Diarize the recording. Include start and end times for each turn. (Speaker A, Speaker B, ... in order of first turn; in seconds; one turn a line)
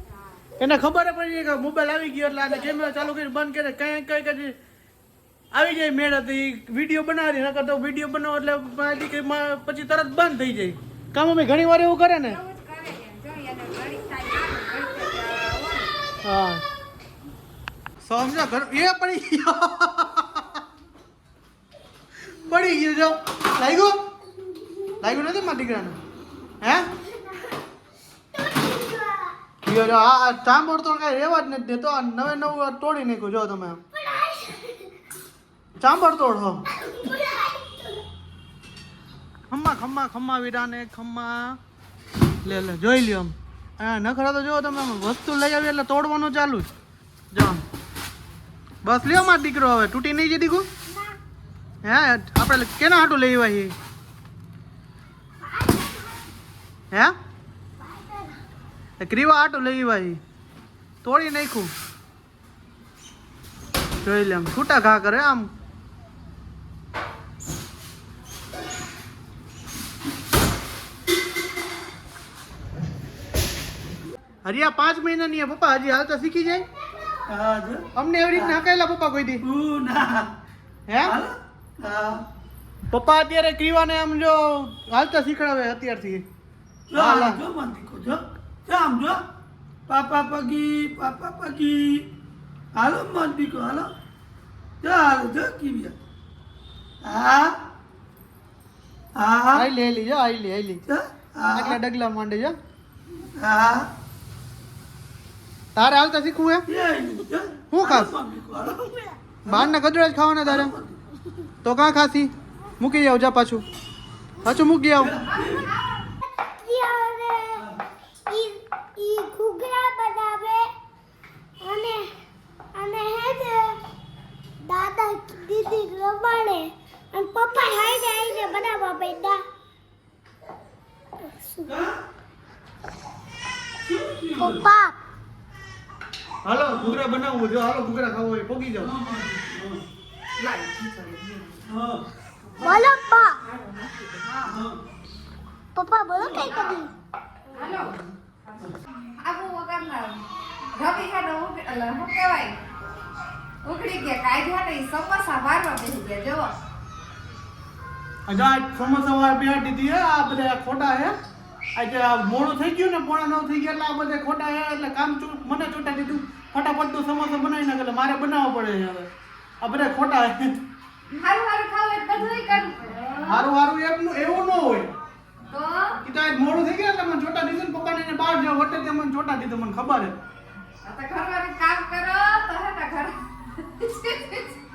Speaker A: 0.6-4.6
Speaker A: 5.5-12.4
Speaker B: 12.3-15.9
Speaker A: 16.2-16.6
Speaker A: 18.0-20.6
Speaker A: 22.3-24.0
Speaker A: 25.0-26.0
Speaker A: 26.6-26.9
Speaker C: 27.1-27.5
Speaker C: 28.3-29.3
Speaker A: 29.6-33.8
Speaker C: 33.9-34.9
Speaker A: 35.8-36.6
Speaker C: 36.7-38.0
Speaker A: 39.5-41.6
Speaker A: 42.4-46.7
Speaker A: 47.3-47.6
Speaker A: 48.8-50.7
Speaker A: 51.8-53.7
Speaker C: 55.5-56.1
Speaker C: 57.8-58.4
Speaker A: 59.0-60.2
Speaker A: 61.0-61.7
Speaker A: 64.0-65.5
Speaker A: 74.4-76.7
Speaker D: 77.3-78.6
Speaker A: 78.0-79.5
Speaker D: 79.4-80.3
Speaker A: 80.9-81.2
Speaker D: 81.0-82.2
Speaker A: 82.9-86.2
Speaker D: 86.9-89.2
Speaker A: 86.9-87.4
Speaker D: 89.9-92.1
Speaker D: 92.7-93.9
Speaker D: 94.8-96.0
Speaker D: 97.0-97.6
Speaker D: 99.2-99.7
Speaker A: 99.5-100.9
Speaker D: 100.9-101.8
Speaker A: 101.5-102.6
Speaker D: 103.4-103.9
Speaker A: 105.8-106.7
Speaker D: 106.7-109.7
Speaker A: 107.7-108.1
Speaker A: 109.5-110.8
Speaker D: 110.4-111.0
Speaker A: 111.6-113.7
Speaker A: 114.4-115.2
Speaker D: 115.0-115.7
Speaker E: 115.2-116.0
Speaker C: 116.2-117.7
Speaker C: 118.3-120.7
Speaker C: 121.6-122.1
Speaker C: 122.8-123.8
Speaker C: 124.7-129.4
Speaker C: 131.4-131.7
Speaker D: 131.7-132.0
Speaker D: 133.8-134.7
Speaker C: 134.4-135.0
Speaker A: 136.4-138.9
Speaker D: 136.7-137.0
Speaker D: 138.8-139.8
Speaker E: 140.4-141.7
Speaker D: 141.7-142.1
Speaker E: 142.6-142.9
Speaker C: 142.6-143.4
Speaker E: 143.5-144.6
Speaker D: 144.5-144.8
Speaker C: 145.8-146.9
Speaker E: 146.5-146.8
Speaker E: 147.5-148.0
Speaker E: 149.2-152.6
Speaker E: 153.6-156.5
Speaker A: 158.3-161.1
Speaker A: 161.8-169.1
Speaker A: 169.6-170.6
Speaker E: 171.2-173.5
Speaker A: 173.3-174.9
Speaker E: 175.5-176.0
Speaker A: 176.0-180.2
Speaker E: 180.8-184.6